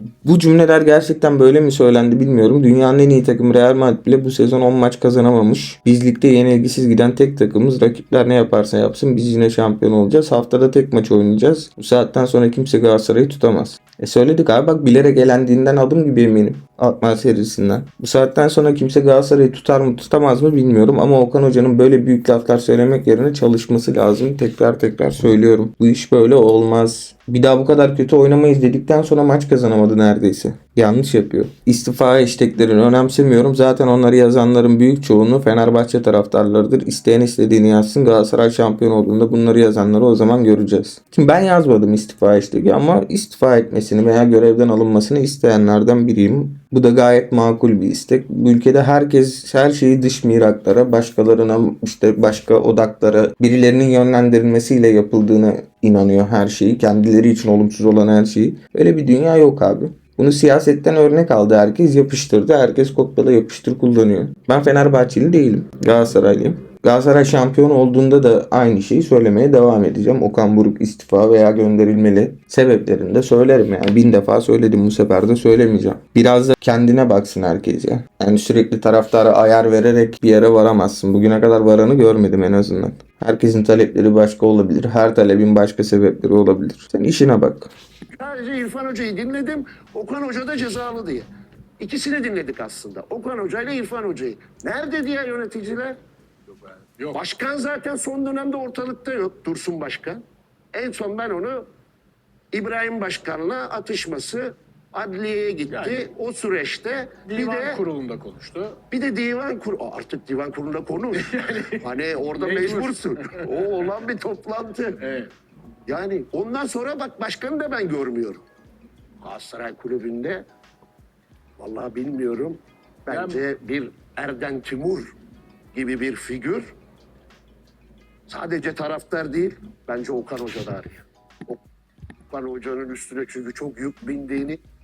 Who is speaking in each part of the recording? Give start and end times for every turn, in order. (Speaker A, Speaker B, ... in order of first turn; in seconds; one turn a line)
Speaker A: 0.2-87.7
Speaker B: 88.1-91.3
Speaker B: 91.8-96.0
Speaker C: 96.5-97.2
Speaker B: 97.1-101.7
Speaker B: 102.5-107.8
Speaker C: 105.7-106.0
Speaker C: 107.2-108.8
Speaker B: 108.9-115.0
Speaker C: 111.1-113.9
Speaker C: 115.0-115.3
Speaker B: 115.9-118.4
Speaker B: 119.2-120.4
Speaker B: 121.6-125.1
Speaker C: 123.1-123.4
Speaker B: 125.7-126.7
Speaker B: 128.3-131.6
Speaker B: 132.3-134.6